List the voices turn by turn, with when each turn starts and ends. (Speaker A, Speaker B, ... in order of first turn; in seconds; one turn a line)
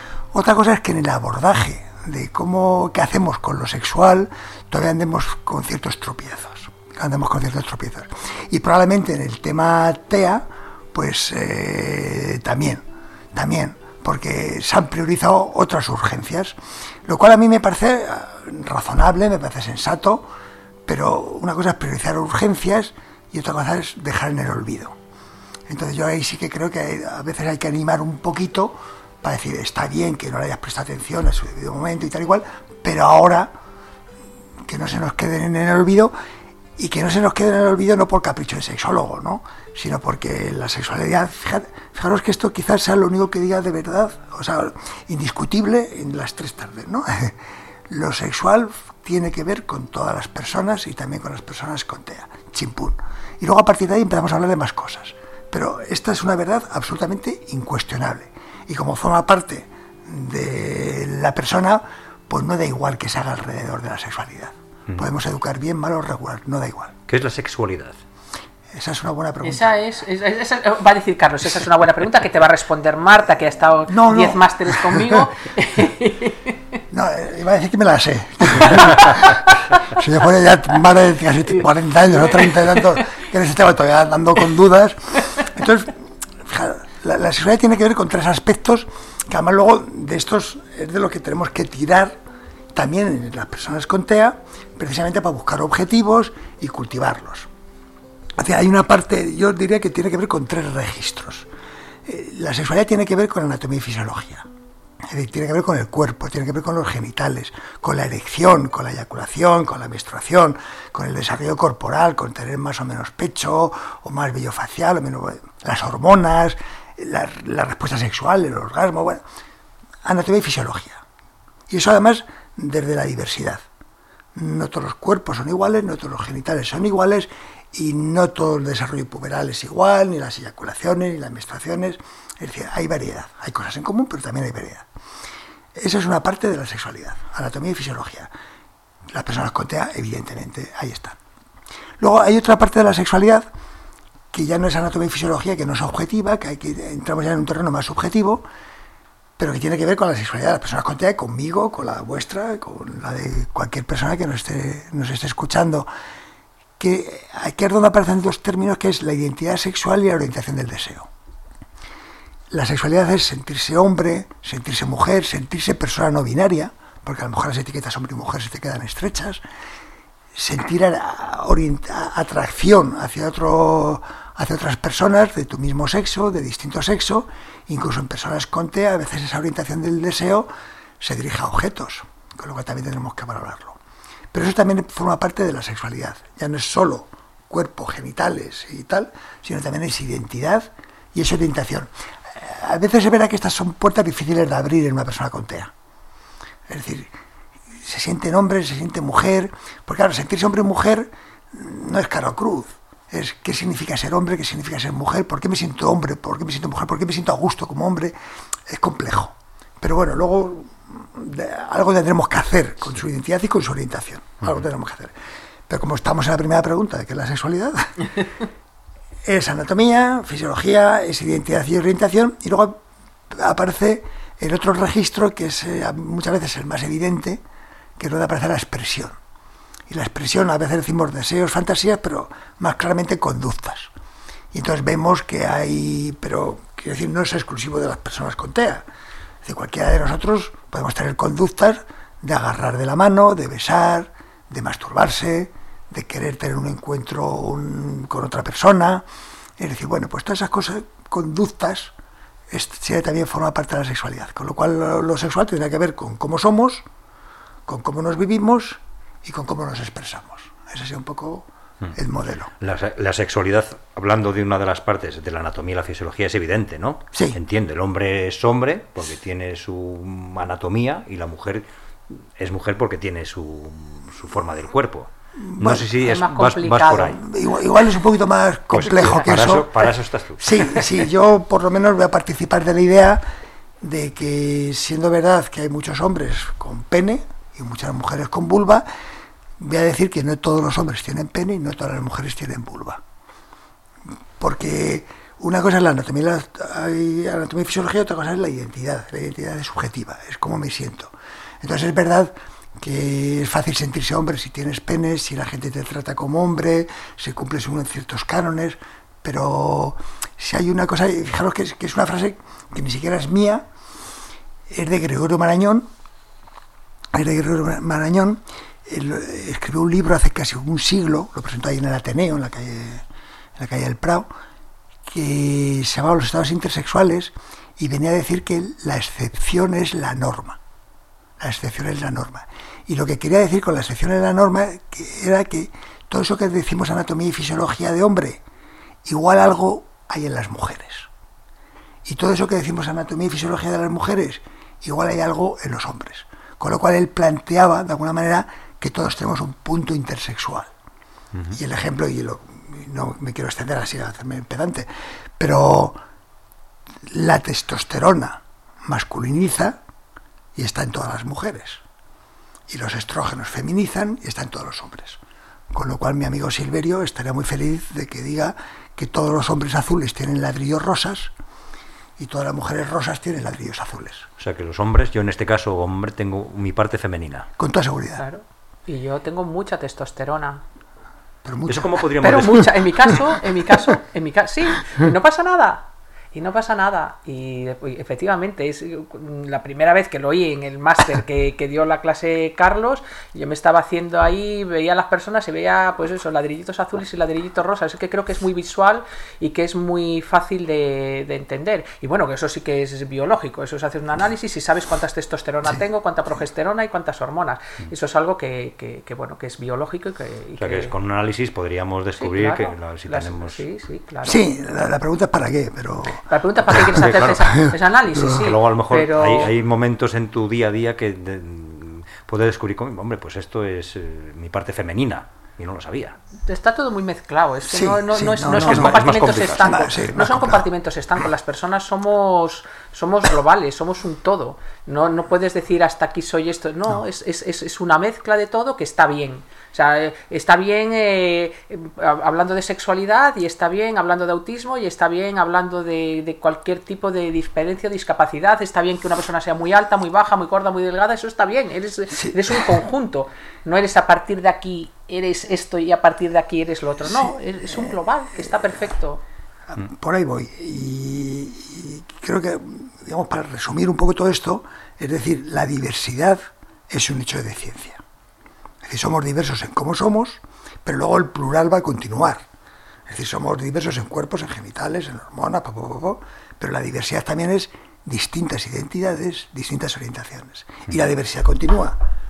Speaker A: 0.3-20.3
Speaker A: 20.9-24.9
Speaker A: 25.7-33.5
Speaker A: 34.6-36.1
Speaker A: 36.8-47.4
Speaker A: 47.9-66.9
Speaker B: 67.1-68.0
Speaker A: 68.7-69.7
Speaker C: 69.4-76.6
Speaker A: 73.9-75.3
Speaker A: 76.9-92.2
Speaker C: 78.7-79.2
Speaker C: 81.6-83.1
Speaker A: 92.7-97.5
Speaker A: 98.4-101.5
Speaker A: 102.0-104.5
Speaker A: 105.1-119.2
Speaker A: 120.0-121.0
Speaker A: 121.7-123.6
Speaker A: 124.3-134.9
Speaker A: 135.8-138.3
Speaker A: 139.1-141.2
Speaker A: 142.0-143.4
Speaker A: 144.3-148.4
Speaker A: 149.4-155.9
Speaker A: 156.8-161.1
Speaker A: 162.5-169.4
Speaker A: 170.3-180.5
Speaker A: 181.0-183.8
Speaker A: 184.3-195.7
Speaker A: 196.7-197.1
Speaker A: 197.7-208.1
Speaker A: 208.7-215.1
Speaker A: 215.7-218.3
Speaker A: 219.2-227.4
Speaker A: 228.0-229.2
Speaker A: 229.9-233.9
Speaker A: 234.5-238.8
Speaker A: 239.4-249.0
Speaker A: 249.6-251.9
Speaker A: 252.5-256.9
Speaker A: 257.7-262.5
Speaker B: 262.6-277.2
Speaker A: 267.1-267.4
Speaker A: 275.4-275.9
Speaker C: 276.0-277.2
Speaker A: 277.0-283.2
Speaker B: 278.7-280.9
Speaker A: 283.8-288.8
Speaker A: 289.6-293.0
Speaker A: 294.4-313.6
Speaker A: 314.7-315.9
Speaker A: 317.1-323.0
Speaker A: 323.6-324.3
Speaker A: 325.0-330.6
Speaker A: 331.4-338.4
Speaker A: 339.0-341.1
Speaker A: 342.0-350.7
Speaker B: 351.3-351.6
Speaker A: 351.5-354.9
Speaker A: 355.4-356.0
Speaker A: 357.0-359.8
Speaker A: 360.5-361.8
Speaker A: 362.7-365.2
Speaker A: 365.7-371.3
Speaker A: 372.2-374.3
Speaker B: 374.4-377.5
Speaker A: 377.6-378.2
Speaker C: 378.2-380.6
Speaker A: 381.4-382.1
Speaker B: 381.7-382.8
Speaker C: 382.2-410.9
Speaker B: 410.6-413.6
Speaker C: 412.2-414.4
Speaker A: 414.2-416.2
Speaker C: 416.2-419.5
Speaker B: 416.7-417.6
Speaker B: 418.2-426.1
Speaker C: 426.4-459.2
Speaker A: 427.7-430.6
Speaker B: 428.5-430.0
Speaker A: 459.7-468.0
Speaker A: 468.8-472.4
Speaker A: 473.1-481.9